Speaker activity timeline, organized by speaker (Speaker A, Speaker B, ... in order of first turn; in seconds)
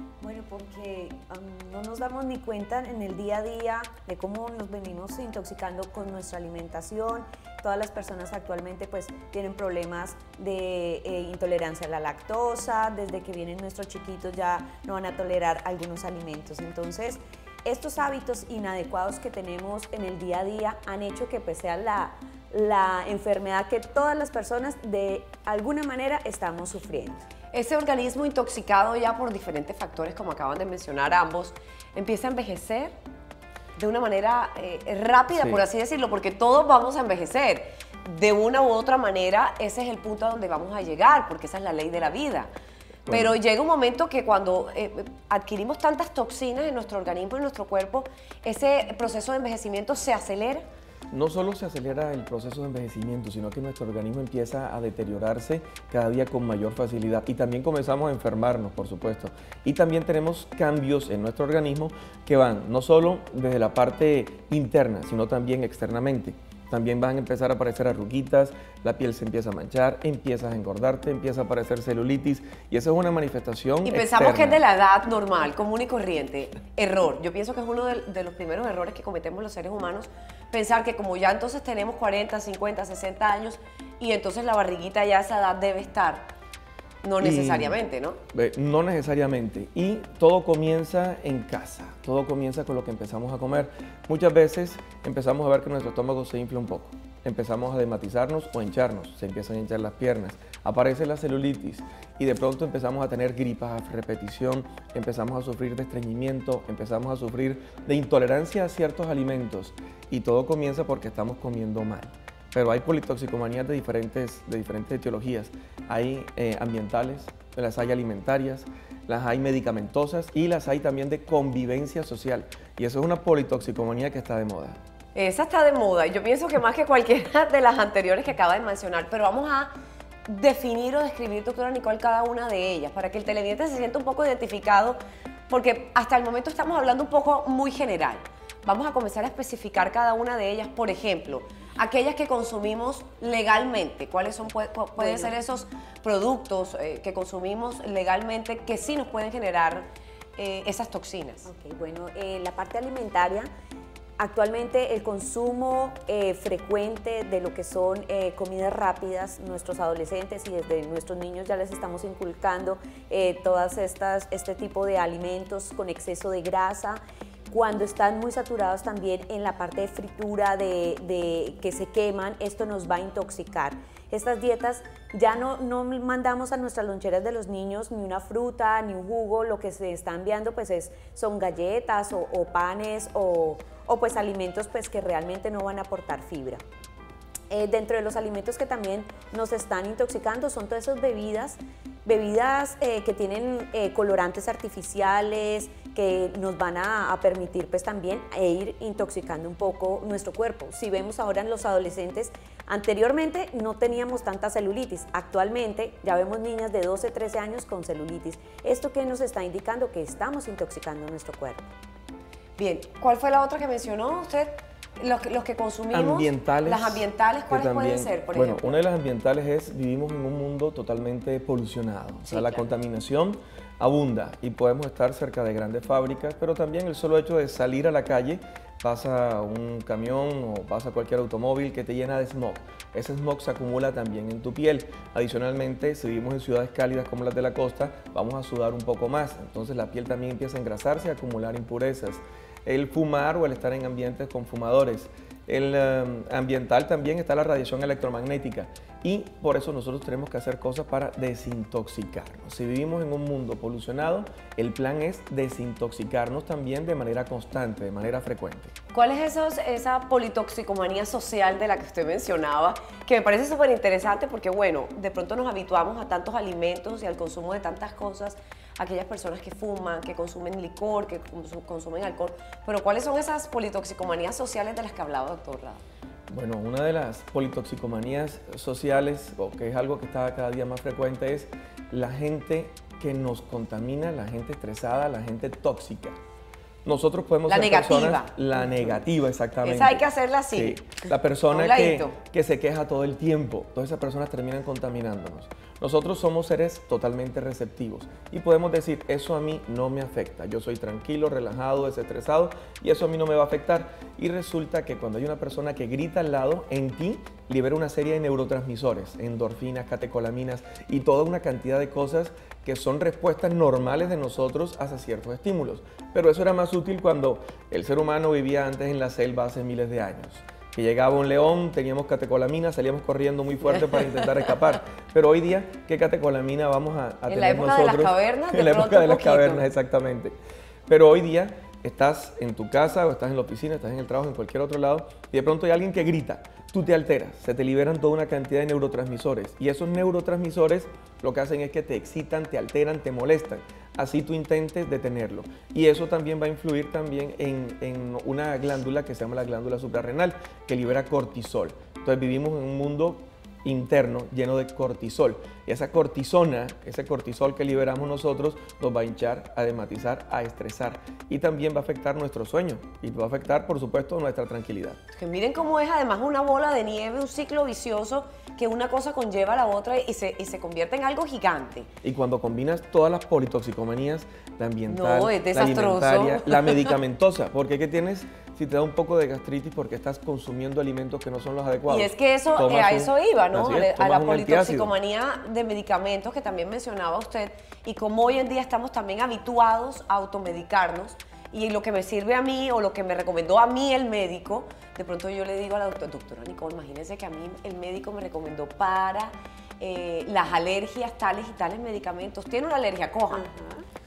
Speaker A: 0.2-27.2, 145.0-145.3, 151.5-153.5, 154.2-186.6, 187.5-211.7
Speaker B: 27.5-33.0, 33.8-42.5, 43.1-50.7, 73.8-86.3, 87.0-88.2, 125.2-129.7, 130.3-151.5, 212.6-218.8, 222.2-222.7, 258.9-275.8, 287.5-289.0, 289.6-290.8, 291.5-292.2, 327.3-329.6, 365.1-371.9, 374.9-377.0, 381.9-403.5
Speaker C: 35.4-35.6, 43.1-43.4, 51.1-74.6, 87.2-87.8, 88.3-124.8, 215.9-258.7, 276.3-286.2, 286.9-330.4, 330.9-365.0, 372.0-384.9